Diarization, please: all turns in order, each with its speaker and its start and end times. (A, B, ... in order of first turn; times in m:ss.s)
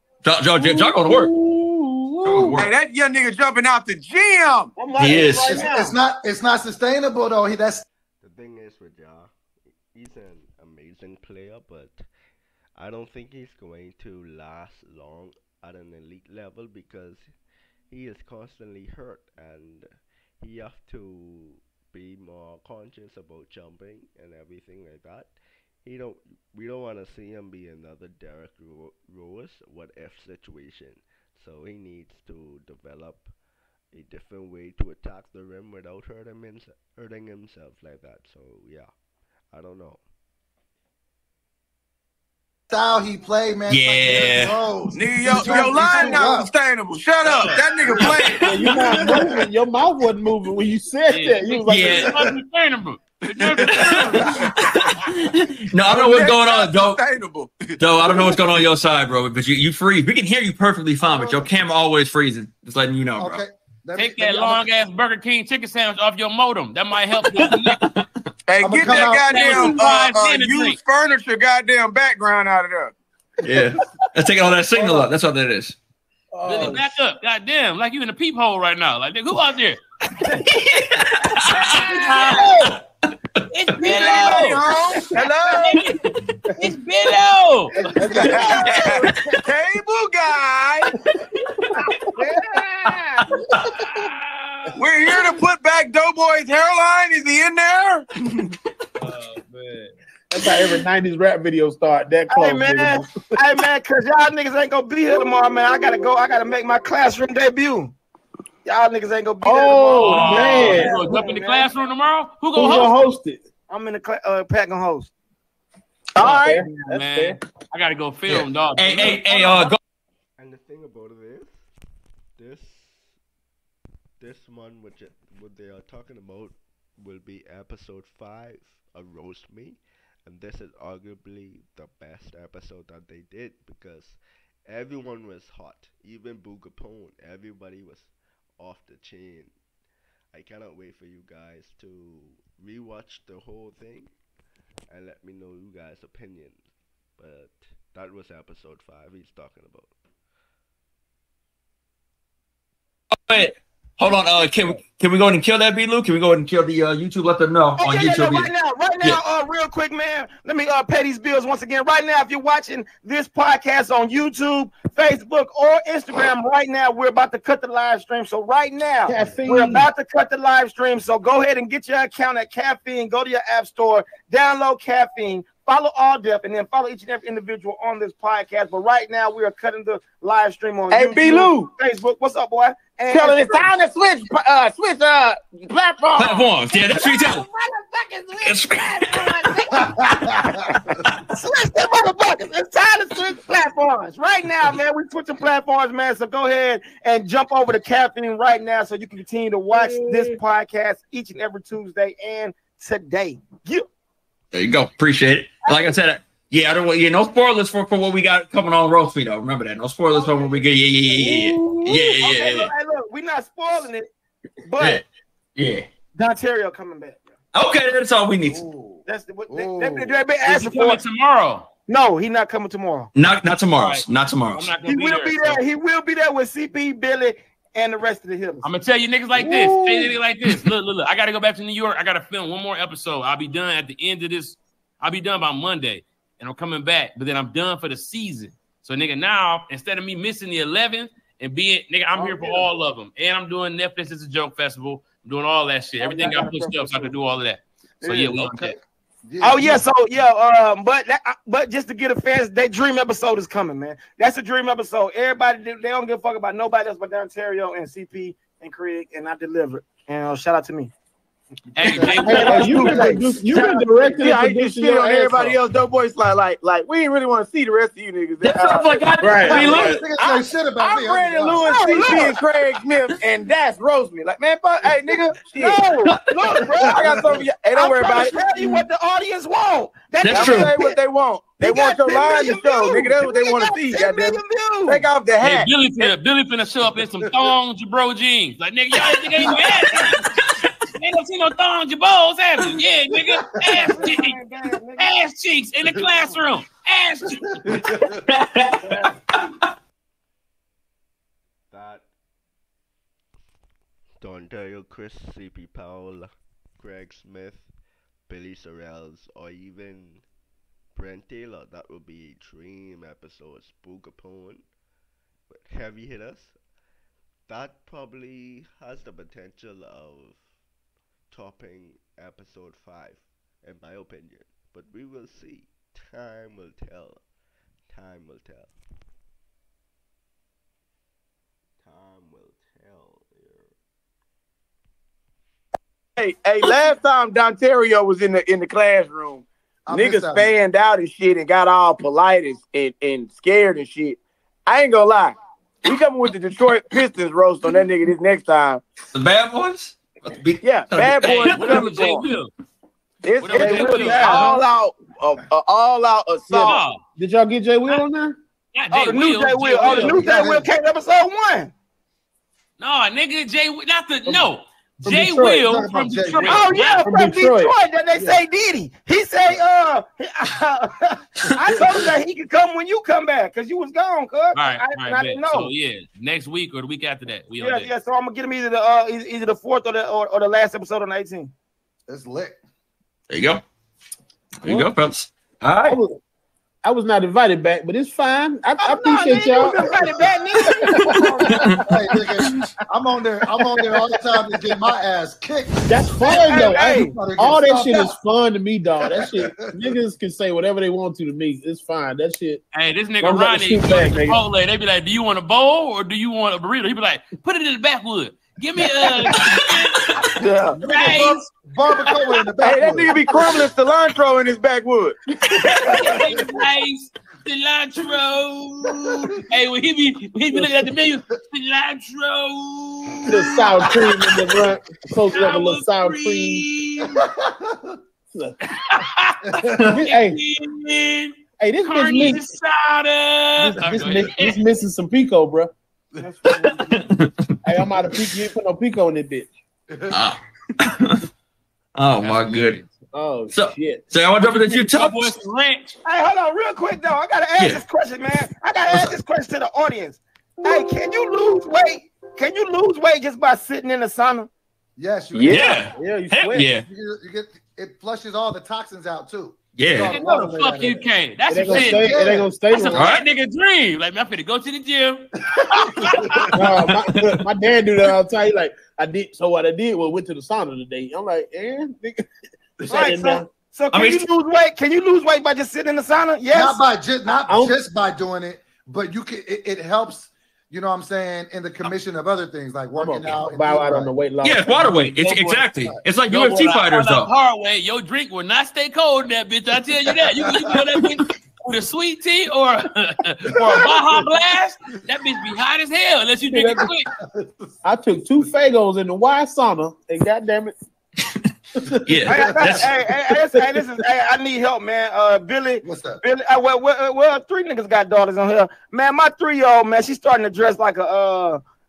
0:00.2-0:01.3 A
0:00.6-0:02.6 B
0:02.2-0:02.7 A
0:02.6-0:04.8 C
0:04.8-0:06.0 D
0:05.0-0:05.7 A
0:05.5-0:07.8 E
0:08.2-0:09.3 F
0:09.9-0:12.0 F
0:12.8-0:17.3 F
0:17.9-0:19.9 F
0:20.4-0:33.3 F
0:33.9-0:38.9 F
0:39.5-0:40.0 F
0:42.7-0:46.5 E
0:43.7-0:44.6 A
0:44.9-0:48.5 C
0:45.3-0:46.1 B
0:47.2-0:48.1 G
0:47.9-0:49.2 A
0:48.3-0:52.1 B
0:51.1-0:54.4 G
0:51.7-0:52.2 A
0:53.4-0:54.3 C
0:53.5-0:57.0 A
0:55.9-0:58.6 C
0:57.8-1:03.4 A
1:01.0-1:01.4 E
1:03.2-1:04.7 E
1:04.0-1:07.8 G
1:07.4-1:08.1 A
1:08.5-1:12.9 C
1:08.6-1:09.8 E
1:08.9-1:10.8 G
1:13.4-1:15.8 A
1:14.8-1:15.1 B
1:16.3-1:17.0 B
1:16.5-1:19.8 G
1:20.2-1:22.8 A
1:22.0-1:22.5 D
1:22.1-1:22.5 B
1:23.4-1:24.1 A
1:23.5-1:24.8 G
1:23.8-1:25.9 C
1:26.6-1:27.7 G
1:28.0-1:28.7 B
1:28.0-1:29.4 D
1:28.0-1:28.4 E
1:28.1-1:30.9 C
1:28.8-1:29.2 A
1:31.0-1:31.4 A
1:31.7-1:32.2 B
1:32.2-1:32.9 D
1:33.2-1:33.7 A
1:33.9-1:34.8 G
1:34.8-1:38.1 C
1:39.0-1:39.9 G
1:40.3-1:43.1 B
1:42.3-1:47.9 D
1:48.6-1:51.8 D
1:49.4-1:51.2 B
1:49.9-1:53.1 G
1:52.6-1:53.4 B
1:53.7-1:55.1 D
1:56.2-1:56.6 C
1:56.2-1:57.4 B
1:56.9-1:59.8 G
1:58.3-1:59.8 A
2:00.4-2:01.7 F
2:02.4-2:03.1 F
2:04.2-2:19.6 F
2:20.3-2:24.1 F
2:24.9-2:29.9 F
2:33.3-2:38.5 A
2:37.8-3:03.7 D
2:49.1-2:49.9 B
3:00.9-3:01.7 C
3:03.1-3:06.5 C
3:06.2-3:07.5 A
3:06.2-3:23.9 D
3:08.4-3:09.4 A
3:09.8-3:10.5 E
3:19.7-3:20.4 B
3:24.5-3:32.7 A
3:25.6-3:26.0 D
3:30.1-3:34.1 D
3:34.6-3:35.0 D
3:34.8-3:35.0 A
3:35.6-3:35.9 A
3:36.2-3:37.2 D
3:37.5-3:38.6 A
3:38.4-3:40.2 E
3:39.1-3:41.0 D
3:40.4-3:41.7 G
3:41.9-3:43.1 D
3:43.2-3:44.8 A
3:43.8-3:45.6 G
3:44.8-3:48.7 D
3:48.6-4:08.8 G
3:49.4-3:49.9 B
4:02.2-4:02.7 B
4:06.0-4:07.1 B
4:08.0-4:08.5 B
4:09.3-4:09.8 E
4:09.4-4:20.9 D
4:21.8-4:23.2 G
4:21.8-4:22.2 A
4:21.9-4:24.2 D
4:21.9-4:22.2 E
4:22.2-4:25.6 B
4:22.5-4:23.2 C
4:24.2-4:30.3 C
4:28.4-4:30.0 A
4:29.2-4:30.0 B
4:29.4-4:32.1 E
4:30.8-4:35.9 C
4:31.5-4:32.4 D
4:35.5-4:41.0 D
4:36.1-4:36.3 A
4:36.8-4:38.4 C
4:37.1-4:37.4 E
4:40.2-4:40.8 A
4:40.3-4:45.7 C
4:41.6-4:45.1 D
4:45.4-4:50.2 G
4:50.1-4:50.7 A
4:51.0-4:54.4 G
4:53.7-4:55.2 D
4:55.0-4:57.6 G
4:57.6-4:58.2 E
4:58.3-4:59.4 A
4:58.8-4:59.1 D
5:01.7-5:02.1 F
5:04.2-5:07.7 F
5:08.3-5:10.2 F
5:11.0-5:14.7 F
5:15.5-5:16.6 F
5:17.5-5:20.4 F
5:21.3-5:27.2 F
5:27.9-5:28.8 F
5:31.8-5:33.8 F
5:36.2-5:48.8 C
5:39.9-5:40.5 E
5:49.1-5:51.9 A
5:50.6-5:52.3 C
5:51.2-5:52.5 G
5:53.2-5:56.8 C
5:53.4-5:54.6 G
5:53.5-5:54.1 B
5:53.6-5:54.6 D
5:56.5-5:58.4 B
5:56.6-5:57.0 G
5:58.8-6:00.3 G
5:58.9-6:01.7 D
5:59.8-6:00.1 B
6:00.0-6:00.6 E
6:02.8-6:07.1 G
6:05.0-6:05.8 B
6:05.7-6:06.7 E
6:06.4-6:15.7 D
6:07.0-6:08.4 B
6:14.6-6:17.9 G
6:17.6-6:21.5 D
6:22.1-6:22.6 E
6:23.3-6:23.6 A
6:24.6-6:26.0 A
6:24.7-6:24.9 B
6:25.8-6:26.2 B
6:26.8-6:29.9 B
6:28.8-6:31.7 D
6:29.7-6:30.2 E
6:30.8-6:32.2 B
6:30.9-6:31.8 A
6:31.8-6:38.1 E
6:33.6-6:33.9 B
6:35.9-6:42.6 B
6:36.3-6:37.0 C
6:36.4-6:37.1 D
6:39.1-6:39.9 E
6:42.7-6:50.2 G
6:43.2-6:44.4 B
6:49.4-6:50.4 A
6:50.4-6:50.8 C
6:50.8-6:51.5 G
6:50.9-6:53.2 E
6:52.6-6:55.2 C
6:55.6-7:04.3 G
6:55.9-6:56.5 E
7:00.5-7:00.8 B
7:03.3-7:06.7 B
7:05.3-7:07.2 G
7:07.1-7:08.0 E
7:08.8-7:14.6 G
7:09.5-7:10.0 E
7:09.8-7:10.0 A
7:10.0-7:10.4 B
7:11.6-7:12.5 B
7:13.6-7:15.7 B
7:13.7-7:14.2 E
7:16.2-7:17.0 D
7:16.5-7:18.2 A
7:17.6-7:19.5 B
7:19.9-7:20.2 E
7:20.1-7:21.2 A
7:22.0-7:22.8 A
7:22.2-7:22.9 G
7:23.1-7:24.0 B
7:23.5-7:25.4 A
7:24.4-7:26.0 G
7:26.0-7:34.5 D
7:35.0-7:35.8 E
7:35.4-7:36.8 A
7:35.4-7:35.8 C
7:36.0-7:36.7 B
7:36.9-7:41.0 E
7:39.8-7:40.3 A
7:40.1-7:46.5 G
7:40.1-7:43.1 B
7:41.6-7:42.5 E
7:42.9-7:43.2 A
7:45.6-7:46.5 E
7:46.5-7:52.3 B
7:46.8-7:47.4 A
7:52.9-7:53.5 B
7:52.9-7:56.8 D
7:53.9-7:54.2 A
7:56.5-8:04.1 E
7:57.5-7:57.8 B
8:03.0-8:05.7 B
8:04.4-8:07.3 A
8:06.3-8:17.1 G
8:13.6-8:14.1 E
8:16.5-8:16.9 B
8:17.2-8:17.5 E
8:17.8-8:20.7 B
8:21.8-8:22.3 B
8:22.0-8:22.9 A
8:22.3-8:31.6 D
8:25.8-8:26.2 E